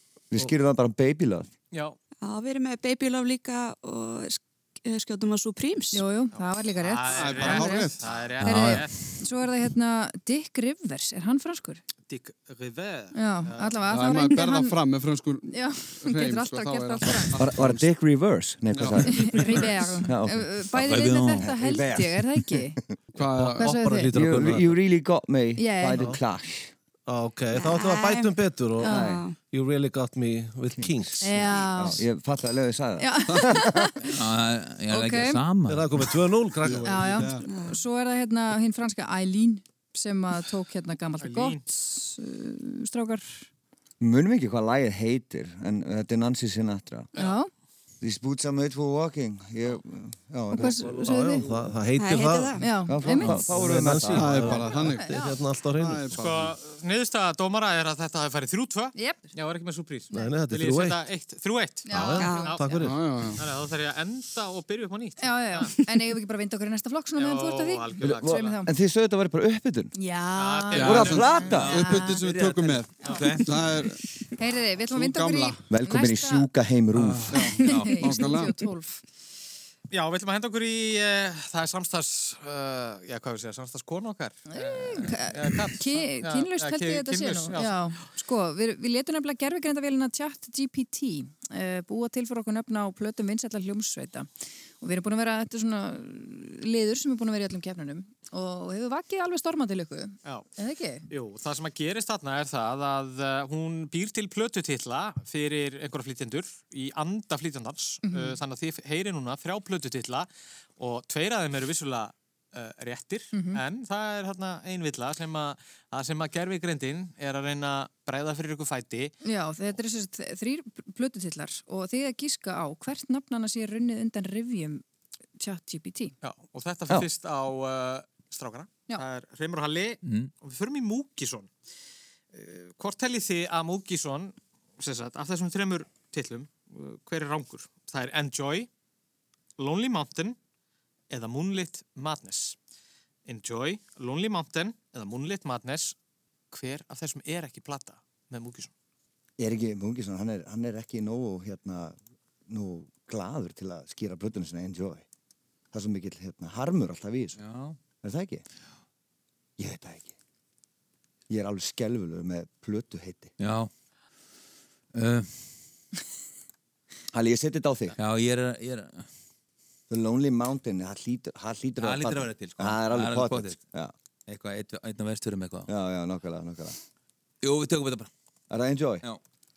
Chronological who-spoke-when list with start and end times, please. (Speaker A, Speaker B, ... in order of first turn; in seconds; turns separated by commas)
Speaker A: 0.3-1.5, Speaker B: 1.7-2.0, Speaker C: 2.2-6.0, Speaker D: 5.9-11.8, Speaker B: 6.8-8.9, Speaker E: 7.1-8.1, Speaker F: 8.4-8.9, Speaker B: 12.1-14.2, Speaker D: 13.1-14.8, Speaker E: 13.9-17.9, Speaker D: 15.5-17.4, Speaker A: 17.4-20.5, Speaker E: 18.7-19.7, Speaker D: 19.1-22.8, Speaker F: 20.8-21.5, Speaker A: 21.4-22.2, Speaker E: 23.1-23.8, Speaker G: 23.2-24.8, Speaker D: 23.6-24.1, Speaker A: 24.1-26.7, Speaker D: 25.6-26.1, Speaker G: 27.1-31.4, Speaker C: 27.5-29.4, Speaker D: 28.8-29.1, Speaker A: 28.9-29.2, Speaker A: 30.8-33.9, Speaker D: 31.2-32.1, Speaker D: 33.0-34.0, Speaker F: 34.0-36.2, Speaker D: 34.9-35.4, Speaker G: 35.7-37.3, Speaker E: 36.6-37.5, Speaker D: 36.8-43.5, Speaker C: 37.5-37.8, Speaker B: 41.2-41.6, Speaker A: 44.0-47.1, Speaker D: 47.1-47.5, Speaker A: 48.0-51.7, Speaker D: 50.5-51.5, Speaker G: 50.7-56.2, Speaker C: 52.0-52.6, Speaker D: 52.6-53.5, Speaker A: 52.9-54.7, Speaker E: 54.1-55.2, Speaker D: 54.6-55.4, Speaker E: 55.8-56.5, Speaker B: 56.2-62.8, Speaker D: 59.0-59.3, Speaker G: 60.1-61.0, Speaker D: 61.9-62.8, Speaker G: 61.9-63.1, Speaker C: 62.2-62.6, Speaker E: 62.8-63.4, Speaker B: 63.4-65.7, Speaker D: 65.2-68.7, Speaker B: 67.2-68.6, Speaker A: 68.0-69.9, Speaker D: 70.0-72.2, Speaker B: 70.4-73.2, Speaker E: 70.8-74.0, Speaker A: 70.8-71.7, Speaker F: 71.4-71.9, Speaker D: 73.0-73.3, Speaker F: 73.0-73.5, Speaker D: 74.4-76.5, Speaker E: 74.9-75.6, Speaker A: 75.7-77.4, Speaker F: 76.9-78.2, Speaker E: 77.3-78.6, Speaker D: 77.4-79.0, Speaker B: 79.9-87.8, Speaker D: 84.5-94.3, Speaker D: 94.8-101.1, Speaker B: 101.1-119.2, Speaker D: 108.0-108.4, Speaker D: 113.3-113.6, Speaker D: 119.2-124.8, Speaker D: 125.4-126.2, Speaker B: 126.2-131.5, Speaker F: 130.0-130.3, Speaker B: 132.3-138.7, Speaker B: 139.6-140.4, Speaker B: 141.1-142.6, Speaker B: 143.3-146.0, Speaker B: 146.5-148.7, Speaker A: 149.4-152.0, Speaker A: 152.5-155.1, Speaker A: 155.7-157.4, Speaker F: 157.4-157.8, Speaker A: 158.0-158.4, Speaker A: 159.6-160.1, Speaker A: 161.3-163.3, Speaker F: 163.4-163.7, Speaker F: 164.9-165.3, Speaker A: 167.1-168.0, Speaker F: 168.0-169.1, Speaker A: 169.9-173.9, Speaker F: 171.8-173.6, Speaker F: 174.3-175.7, Speaker A: 175.7-176.8, Speaker F: 177.4-178.1, Speaker A: 178.5-179.0